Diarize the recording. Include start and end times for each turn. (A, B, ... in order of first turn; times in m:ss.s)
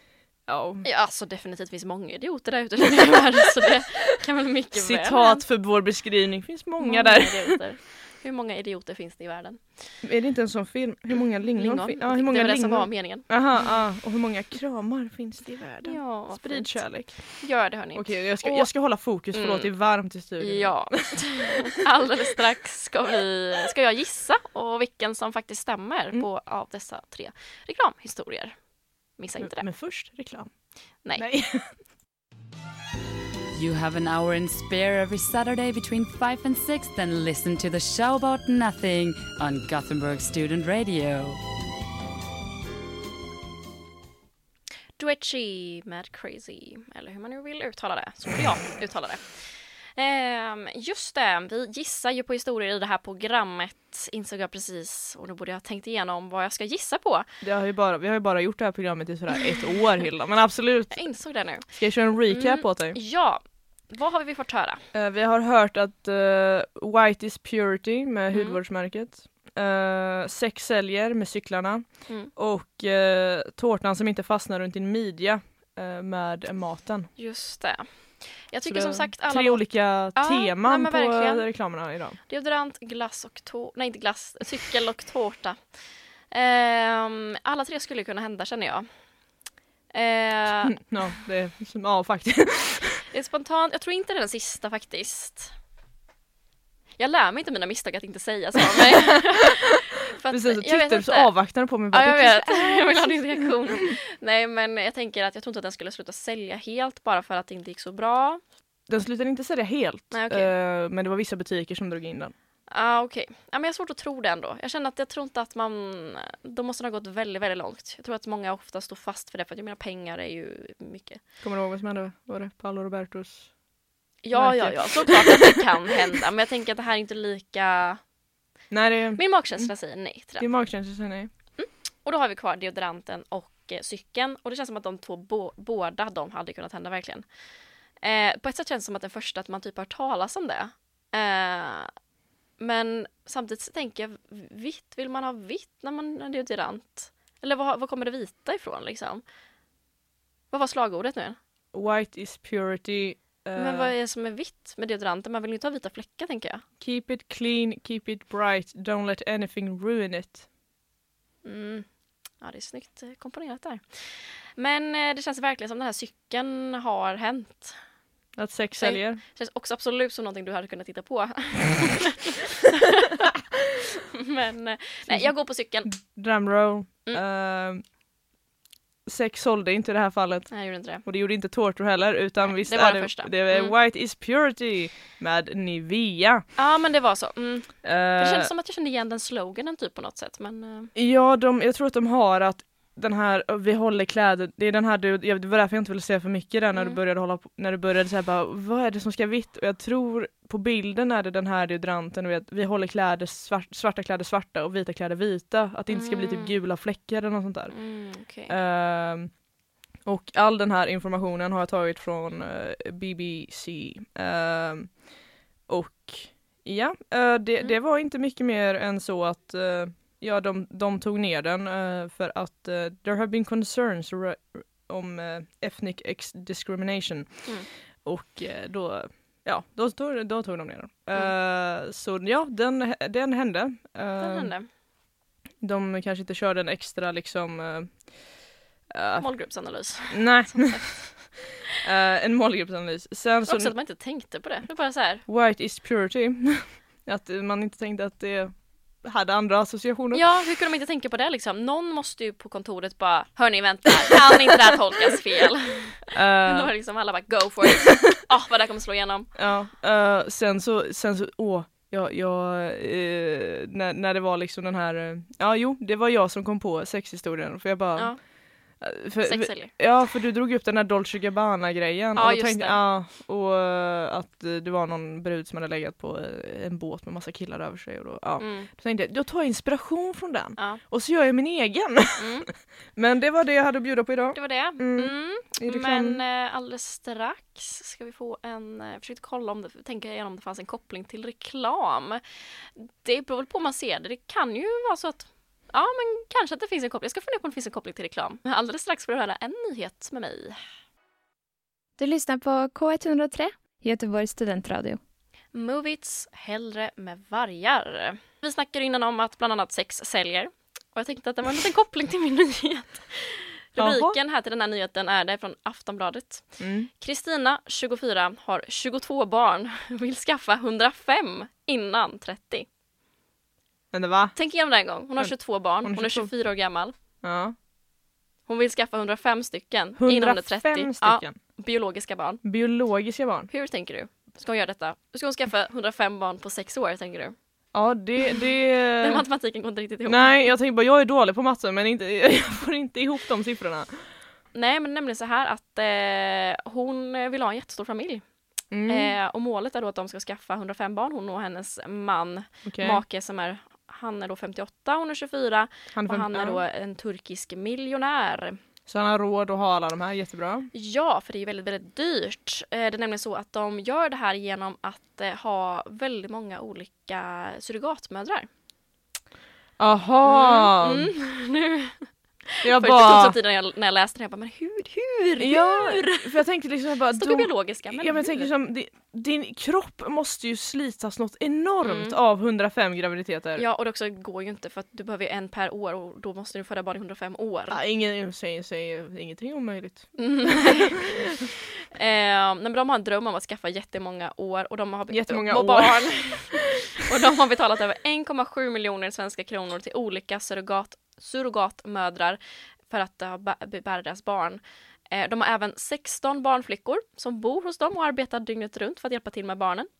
0:00.5-0:00.8 A
0:00.8-0:05.4 B
0:04.7-0:07.6 A
0:06.8-0:09.8 B
0:10.0-0:17.4 A
0:11.5-0:13.7 B
0:15.8-0:18.7 B
0:17.9-0:21.2 A
0:19.3-0:19.7 B
0:20.4-0:28.6 B
0:29.2-0:29.7 B
0:29.4-0:30.5 A
0:31.1-0:31.7 A
0:33.5-0:41.4 C
0:45.0-0:57.3 B
0:57.4-1:01.0 A
1:00.9-1:01.7 B
1:01.6-1:03.0 A
1:02.3-1:04.8 B
1:04.9-1:17.1 A
1:08.3-1:08.6 B
1:17.2-1:21.5 B
1:18.6-1:22.2 A
1:22.3-1:25.6 B
1:26.3-1:28.9 B
1:29.9-1:30.8 B
1:30.6-1:33.0 A
1:33.1-1:35.5 B
1:37.0-1:41.3 B
1:40.3-1:43.5 A
1:41.9-1:48.4 B
1:48.9-1:52.3 A
1:50.1-1:50.5 B
1:52.7-2:01.2 B
2:01.4-2:03.5 A
2:04.2-2:08.0 B
2:04.3-2:05.6 A
2:08.7-2:09.7 A
2:09.2-2:10.5 B
2:10.4-2:11.3 A
2:11.6-2:17.2 B
2:18.0-2:21.9 B
2:22.6-2:29.2 B
2:30.5-2:31.4 B
2:31.7-2:33.9 A
2:33.6-2:36.6 B
2:36.8-2:40.4 A
2:41.4-2:41.8 B
2:42.4-2:47.8 B
2:48.4-2:49.2 A
2:48.8-2:53.3 B
2:54.1-2:55.9 B
2:55.8-2:57.8 A
2:59.0-3:06.4 A
3:00.5-3:01.0 B
3:02.4-3:03.7 B
3:06.6-3:10.9 B
3:07.8-3:08.5 A
3:10.9-3:27.7 A
3:25.9-3:26.6 B
3:27.7-3:28.5 B
3:28.5-3:29.3 A
3:30.0-3:35.0 A
3:35.7-3:47.5 A
3:48.0-3:54.5 A
3:54.2-3:54.7 B
3:55.6-3:58.1 A
3:58.9-3:59.3 A
3:59.2-4:01.2 B
4:00.1-4:01.2 A
4:01.8-4:03.7 A
4:03.4-4:05.2 B
4:05.2-4:10.2 A
4:10.1-4:19.3 B
4:16.1-4:16.7 A
4:19.3-4:28.1 A
4:28.8-4:42.4 A
4:29.2-4:29.7 B
4:32.2-4:32.8 B
4:38.4-4:38.7 B
4:42.2-4:42.5 B
4:43.0-4:46.2 A
4:44.3-5:00.6 B
5:02.0-5:05.0 D
5:05.5-5:22.7 B
5:13.8-5:14.2 A
5:16.6-5:16.9 A
5:23.9-5:24.4 A
5:24.4-5:26.9 B
5:25.2-5:26.3 A
5:27.2-5:27.5 A
5:28.5-5:32.4 B
5:30.0-5:31.4 A
5:32.4-5:33.5 A
5:33.5-5:37.3 B
5:37.7-5:39.2 A
5:39.0-5:40.3 B
5:40.0-5:44.1 A
5:44.5-5:48.2 B
5:48.7-5:49.1 A
5:48.9-5:58.6 B
5:52.6-5:53.0 A
5:55.9-5:56.6 A
5:58.9-6:00.7 A
6:00.7-6:08.5 B
6:09.8-6:11.1 A
6:10.2-6:16.4 B
6:12.6-6:13.4 A
6:15.4-6:23.6 A
6:17.1-6:18.5 B
6:21.8-6:22.2 B
6:23.6-6:27.8 B
6:27.7-6:31.2 A
6:30.2-6:31.4 B
6:31.9-6:49.9 B
6:35.1-6:36.6 A